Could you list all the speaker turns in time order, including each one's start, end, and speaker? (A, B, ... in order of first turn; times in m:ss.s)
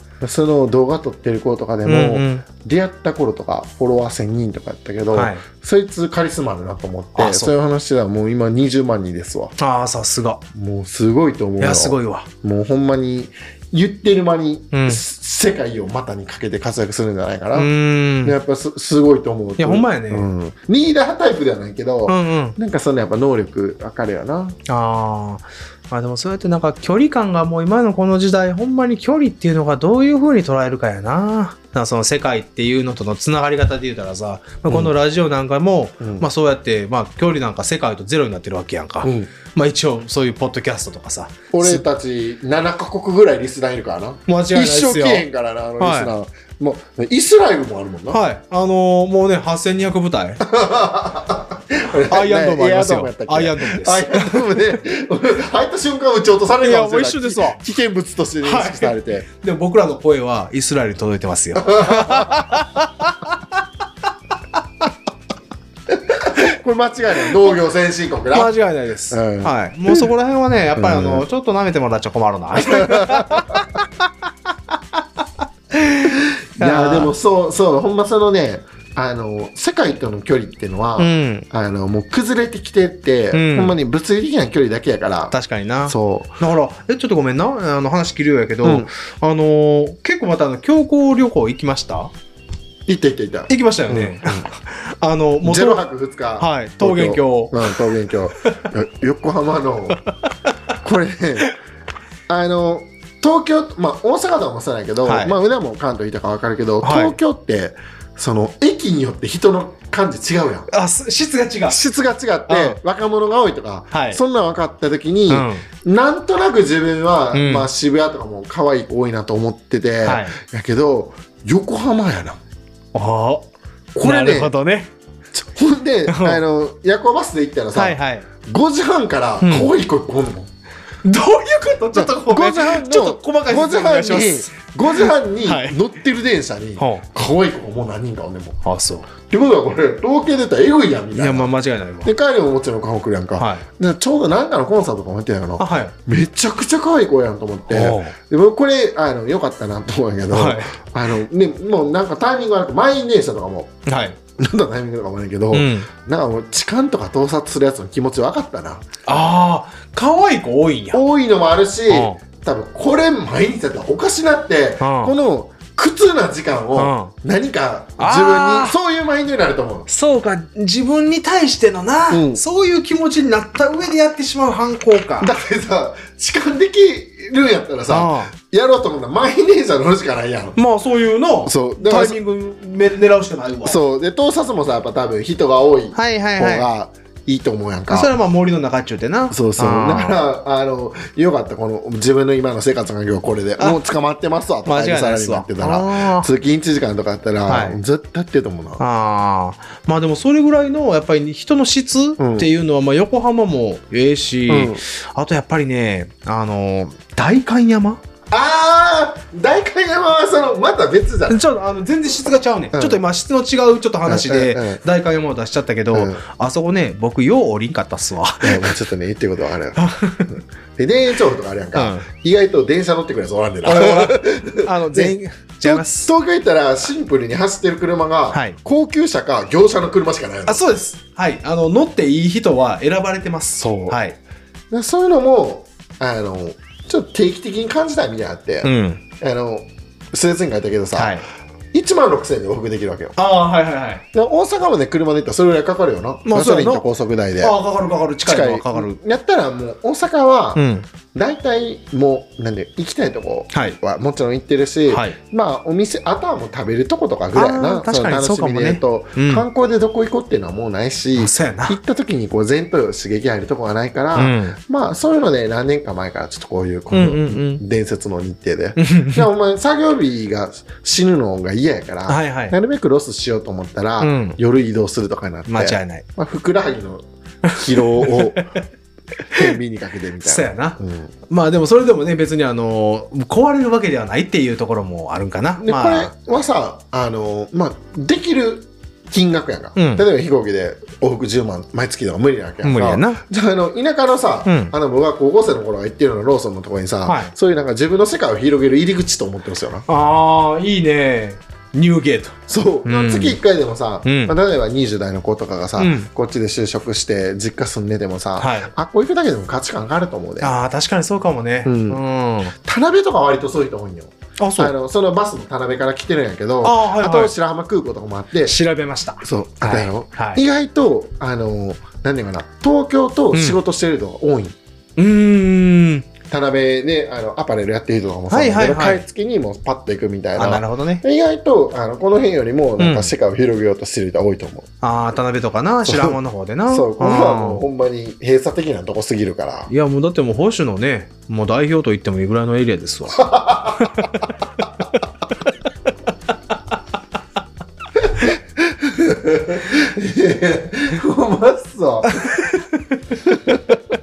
0:00.2-0:09.6 A
0:01.8-0:02.4 B
0:05.1-0:05.4 B
0:07.2-0:07.5 B
0:09.6-0:10.4 B
0:10.5-0:17.7 A
0:11.6-0:12.3 B
0:14.7-0:15.0 B
0:17.6-0:18.4 B
0:18.2-0:24.6 A
0:19.6-0:20.3 B
0:22.1-0:22.6 B
0:24.7-0:41.8 B
0:34.7-0:34.9 A
0:36.0-0:36.3 A
0:39.0-0:39.3 A
0:41.5-0:48.2 A
0:44.3-0:45.3 B
0:45.8-0:46.1 B
0:48.1-0:50.4 B
0:50.4-0:59.3 A
0:52.1-0:54.4 B
0:56.6-0:57.6 B
0:58.4-1:03.6 B
1:01.6-1:02.6 A
1:05.9-1:08.5 A
1:07.3-1:07.5 B
1:08.3-1:13.7 B
1:09.1-1:10.1 A
1:10.7-1:11.3 A
1:12.6-1:13.6 A
1:15.7-1:17.1 B
1:16.1-1:25.4 A
1:21.0-1:21.5 B
1:23.3-1:23.8 B
1:25.3-1:32.1 B
1:25.9-1:26.4 A
1:28.6-1:28.9 A
1:32.8-1:34.5 A
1:33.5-1:35.8 B
1:35.4-1:40.0 A
1:36.4-1:37.8 B
1:38.4-1:38.7 B
1:40.0-1:40.5 B
1:40.8-1:41.5 A
1:42.3-1:50.7 A
1:45.0-1:45.4 B
1:46.8-1:47.2 B
1:50.7-1:51.8 B
1:51.7-2:02.4 A
1:52.5-1:52.8 B
1:53.9-1:54.2 B
1:55.3-1:55.6 B
1:57.3-1:57.7 B
2:00.0-2:00.4 B
2:02.9-2:03.5 B
2:03.9-2:04.5 A
2:04.0-2:04.9 B
2:05.3-2:10.5 A
2:06.1-2:06.4 B
2:07.7-2:08.3 B
2:09.4-2:09.7 B
2:11.0-2:15.8 B
2:11.9-2:18.6 A
2:16.8-2:17.0 B
2:18.6-2:19.1 B
2:19.3-2:21.5 A
2:21.1-2:22.1 B
2:22.0-2:33.7 A
2:23.4-2:23.6 B
2:25.6-2:25.9 B
2:27.7-2:28.2 B
2:30.3-2:30.8 B
2:33.8-2:34.2 B
2:34.4-2:38.8 A
2:35.5-2:35.9 B
2:39.0-2:41.0 B
2:40.9-2:49.9 A
2:41.9-2:42.2 B
2:44.8-2:45.1 B
2:46.8-2:47.1 B
2:48.0-2:48.8 B
2:49.9-2:55.3 B
2:52.1-2:52.4 A
2:55.2-3:00.6 A
2:57.9-2:58.3 B
3:00.6-3:03.8 B
3:01.4-3:02.2 A
3:03.6-3:08.1 A
3:05.9-3:06.7 B
3:07.9-3:10.2 B
3:09.3-3:18.8 A
3:14.6-3:16.3 B
3:17.5-3:17.8 B
3:18.8-3:28.0 B
3:22.2-3:22.5 A
3:24.5-3:24.8 A
3:28.3-3:31.4 A
3:31.3-3:38.8 B
3:32.7-3:33.0 A
3:34.0-3:34.8 A
3:35.9-3:36.2 A
3:38.4-3:50.6 A
3:39.8-3:40.4 B
3:41.7-3:42.1 B
3:43.6-3:46.1 B
3:48.3-3:48.6 B
3:50.4-3:54.2 B
3:53.6-3:54.0 A
3:54.7-4:01.2 A
3:58.6-3:59.0 B
4:00.9-4:01.3 B
4:01.7-4:03.2 A
4:03.2-4:04.0 B
4:04.1-4:07.6 A
4:06.2-4:06.8 B
4:07.4-4:09.0 B
4:08.2-4:38.5 A
4:10.6-4:10.9 B
4:14.9-4:15.2 B
4:17.3-4:19.4 B
4:21.2-4:21.8 B
4:24.1-4:24.6 B
4:26.9-4:27.6 B
4:28.8-4:29.3 B
4:32.1-4:32.6 B
4:34.0-4:34.4 B
4:35.5-4:36.0 B
4:37.4-4:38.6 B
4:39.3-4:41.1 A
4:40.2-4:46.1 B
4:45.6-4:59.8 A
4:49.7-4:50.0 B
4:52.6-4:53.2 B
4:54.4-4:54.7 B
4:57.1-4:57.3 B
4:59.9-5:03.4 B
5:02.5-5:10.6 A
5:04.0-5:04.4 B
5:05.8-5:06.1 B
5:08.4-5:08.7 B
5:10.4-5:12.6 B
5:11.6-5:12.0 A
5:12.6-5:18.6 A
5:14.4-5:14.7 B
5:16.6-5:17.3 B
5:18.4-5:20.4 B
5:19.2-5:24.6 A
5:25.0-5:26.1 B
5:26.3-5:34.7 A
5:28.3-5:29.0 B
5:30.4-5:31.0 B
5:32.8-5:33.1 B
5:34.8-5:37.6 B
5:35.8-5:39.7 A
5:39.7-5:45.0 B
5:43.1-5:44.2 A
5:47.9-5:52.6 A
5:52.1-5:53.0 B
5:53.1-5:53.8 A